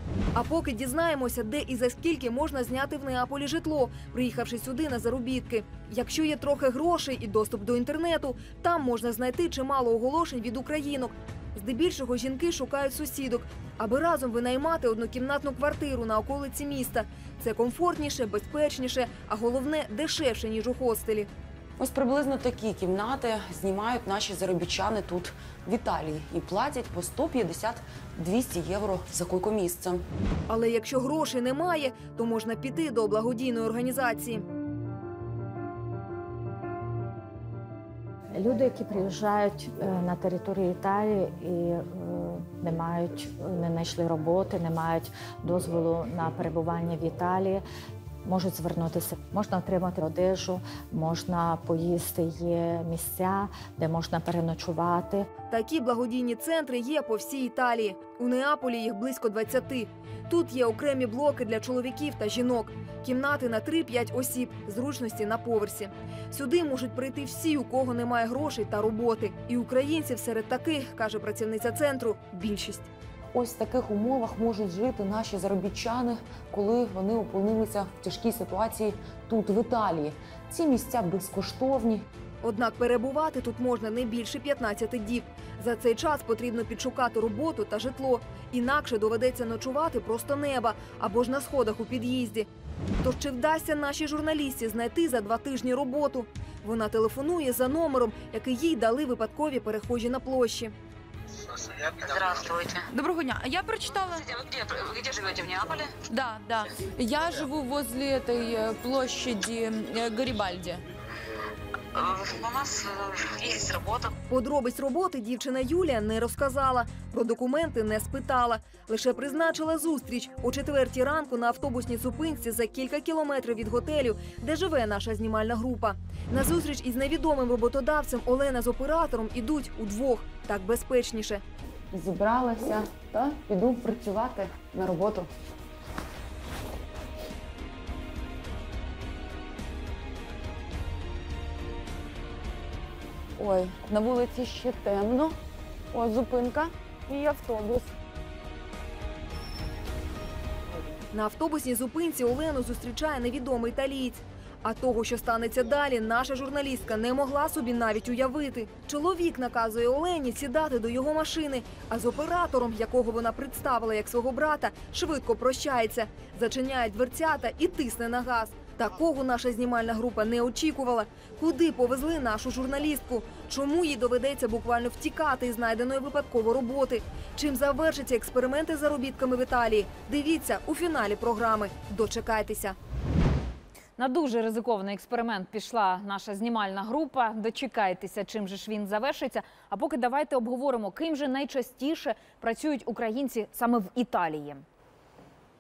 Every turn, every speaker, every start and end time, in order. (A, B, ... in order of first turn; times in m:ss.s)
0:00.4-0:21.3 A
0:21.8-0:30.0 B
0:30.5-0:34.4 A
0:38.3-0:47.6 C
0:48.2-0:55.3 C
0:55.5-1:12.9 A
1:13.3-1:22.1 B
1:22.4-1:32.5 A
1:33.0-1:40.7 A
1:41.7-1:42.9 D
1:43.9-1:46.0 D
1:46.9-1:50.8 E
1:52.0-1:54.1 D
1:54.3-2:11.4 A
2:11.9-2:15.3 B
2:23.4-2:25.4 B
2:25.9-2:28.0 B
2:31.1-3:02.8 A
3:04.0-3:14.6 F